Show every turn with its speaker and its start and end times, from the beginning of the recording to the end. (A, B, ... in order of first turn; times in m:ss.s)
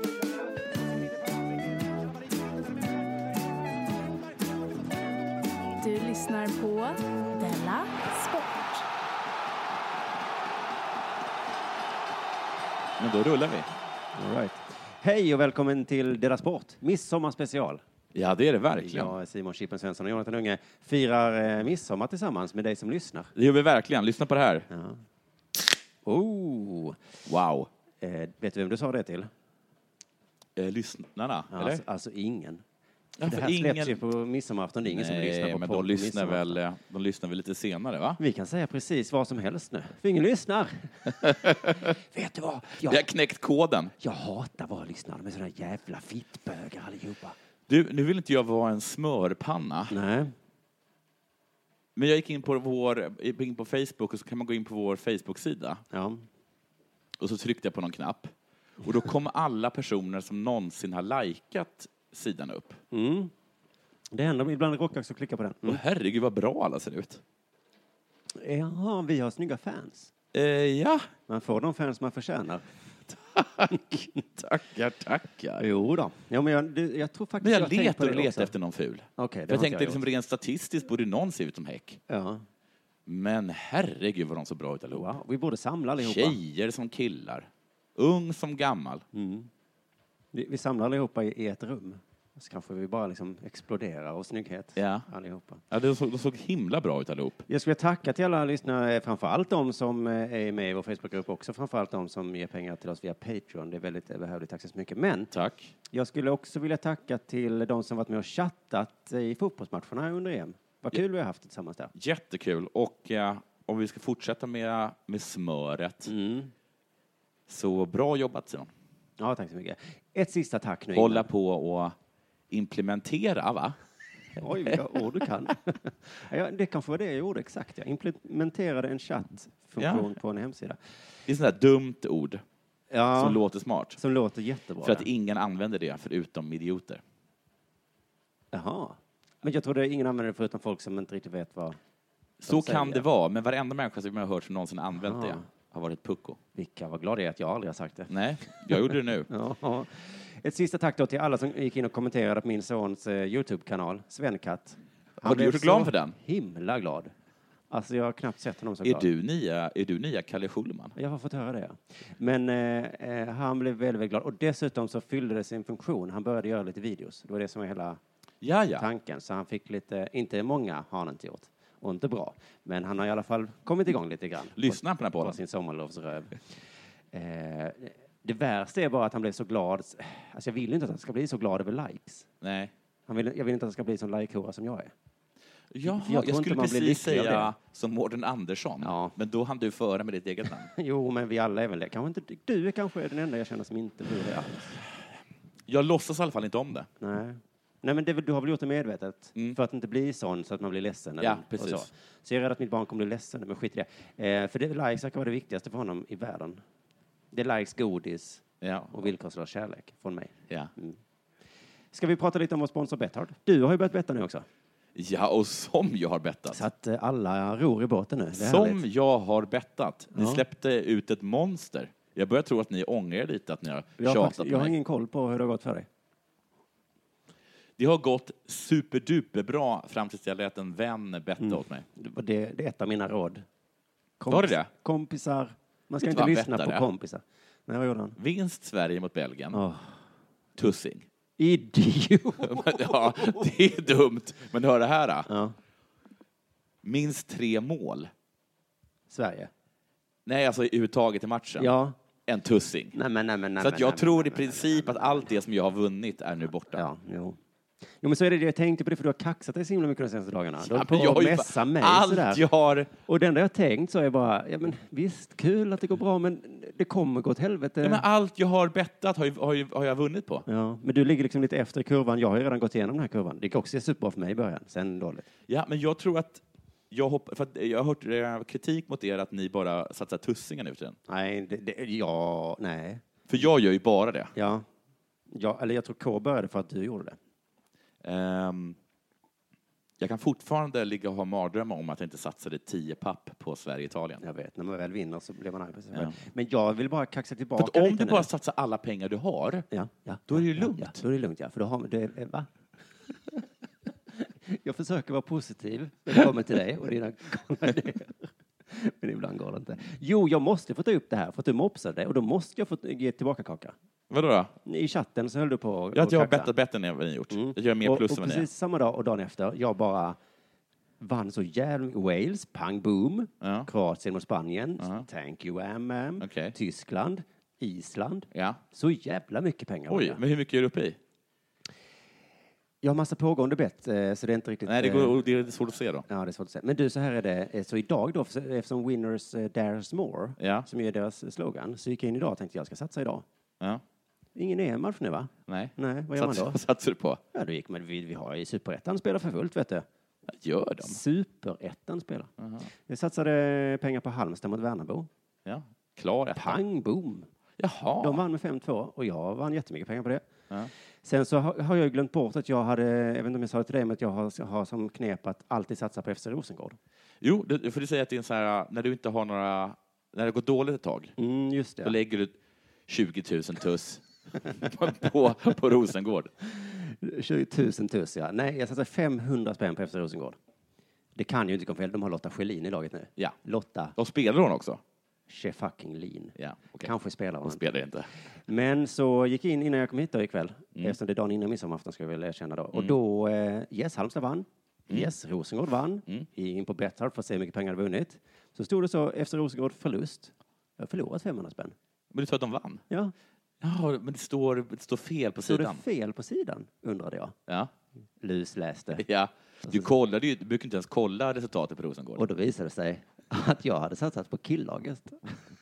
0:05.8-0:08.9 A
0:13.0-0:13.7 B
0:14.2-0:17.8 C
0:18.1-0:19.2 B
0:18.8-0:23.3 C
0:23.4-0:24.7 B
0:24.7-0:25.0 C
0:26.0-0:27.0 C
0:27.3-0:27.7 B
0:28.0-0:29.3 C
0:30.6-0:31.8 B
0:31.5-0:32.6 C
0:33.2-0:34.0 B
0:33.2-0:36.6 C
0:34.8-0:38.2 B
0:38.2-0:43.1 C
0:41.1-0:41.9 B
0:42.8-0:43.9 B
0:44.0-0:47.4 C
0:47.7-0:50.0 B
0:49.9-0:50.3 C
0:52.0-0:55.8 B
0:55.9-0:56.2 C
0:57.2-1:02.8 B
1:02.9-1:03.3 C
1:04.1-1:05.8 C
1:05.7-1:07.2 B
1:08.4-1:10.1 C
1:10.3-1:11.1 B
1:11.3-1:12.6 C
1:13.3-1:13.8 B
1:13.7-1:14.2 C
1:14.4-1:15.6 B
1:15.6-1:18.5 C
1:17.4-1:22.0 B
1:19.2-1:20.0 C
1:22.1-1:22.4 C
1:23.1-1:25.1 B
1:24.9-1:26.4 C
1:26.0-1:29.0 B
1:29.1-1:29.5 C
1:30.3-1:35.6 C
1:34.8-1:35.1 B
1:35.7-1:37.4 B
1:37.5-1:45.3 C
1:45.3-1:45.7 B
1:45.9-1:51.9 C
1:51.9-1:56.1 B
1:56.1-1:56.5 C
1:57.5-1:58.7 B
1:59.2-2:01.3 C
2:00.9-2:02.0 B
2:02.5-2:03.8 B
2:04.4-2:10.8 C
2:09.8-2:10.1 B
2:11.3-2:12.4 B
2:12.9-2:13.4 C
2:13.1-2:14.0 B
2:14.0-2:15.1 C
2:14.8-2:17.0 B
2:18.5-2:21.8 C
2:22.4-2:26.4 B
2:22.4-2:23.1 C
2:25.0-2:25.4 C
2:26.6-2:37.1 C
2:28.1-2:29.3 B
2:35.2-2:36.2 B
2:37.7-2:39.1 C
2:38.8-2:41.0 B
2:41.0-2:48.0 C
2:48.4-2:48.9 B
2:48.8-2:56.6 C
2:54.5-2:55.4 B
2:57.1-3:02.3 C
3:02.4-3:02.7 B
3:03.1-3:04.9 C
3:05.7-3:10.7 B
3:05.8-3:07.5 C
3:08.8-3:09.2 C
3:10.7-3:14.7 C
3:15.7-3:16.9 B
3:17.0-3:26.6 C
3:21.2-3:21.9 B
3:27.3-3:31.0 C
3:28.6-3:29.0 B
3:31.9-3:34.5 C
3:35.0-3:36.7 B
3:36.5-3:38.8 C
3:38.3-3:44.8 B
3:40.1-3:40.4 C
3:44.0-3:45.9 C
3:47.8-3:51.8 B
3:51.4-3:53.4 C
3:54.2-3:58.2 C
3:54.3-3:54.7 B
3:56.0-3:56.8 B
3:58.2-3:59.6 B
3:59.5-4:00.0 C
4:00.6-4:01.1 B
4:01.4-4:03.4 C
4:02.4-4:05.3 B
4:05.3-4:05.6 C
4:06.8-4:08.1 B
4:09.1-4:09.5 C
4:10.3-4:11.7 B
4:11.6-4:12.0 C
4:12.3-4:13.0 B
4:12.9-4:15.3 C
4:13.6-4:16.9 B
4:16.7-4:17.4 C
4:18.0-4:22.4 C
4:20.6-4:22.9 B
4:23.0-4:28.1 C
4:27.8-4:30.5 B
4:30.5-4:35.3 C
4:35.5-4:41.0 B
4:41.1-4:43.0 C
4:43.3-4:44.3 B
4:44.4-4:44.7 C
4:45.3-4:47.2 C
4:48.0-4:48.8 B
4:50.0-4:54.2 B
4:54.2-4:58.3 C
4:57.6-4:59.7 B
4:59.7-5:02.5 C
5:00.3-5:01.0 B
5:04.5-5:13.8 C
5:14.1-5:14.5 B
5:14.6-5:16.5 C
5:15.9-5:18.5 B
5:17.3-5:20.2 C
5:21.0-5:30.2 C
5:23.4-5:23.7 B
5:24.8-5:25.1 B
5:26.2-5:26.6 B
5:28.3-5:28.6 B
5:29.9-5:31.0 B
5:32.8-5:35.2 C
5:34.7-5:36.1 B
5:36.1-5:43.2 C
5:40.4-5:40.7 B
5:44.4-5:46.6 C
5:45.5-5:47.2 B
5:47.3-5:49.8 C
5:50.3-5:51.0 B
5:50.8-5:52.3 C
5:52.4-5:52.7 B
5:52.9-5:55.1 C
5:55.4-5:56.6 B
5:56.4-5:57.3 C
5:57.6-5:58.2 B
5:58.0-6:00.2 C
6:01.0-6:06.8 C
6:07.2-6:11.1 B
6:11.2-6:12.0 C
6:11.8-6:12.4 B
6:12.9-6:16.3 B
6:16.5-6:20.4 C
6:21.2-6:24.0 C
6:24.0-6:24.8 B
6:25.3-6:27.7 C
6:26.4-6:28.1 B
6:28.5-6:41.8 C
6:42.1-6:42.8 B
6:43.6-6:45.8 B
6:45.4-6:47.4 C
6:48.2-6:49.0 C
6:49.0-6:52.3 B
6:52.2-6:55.4 C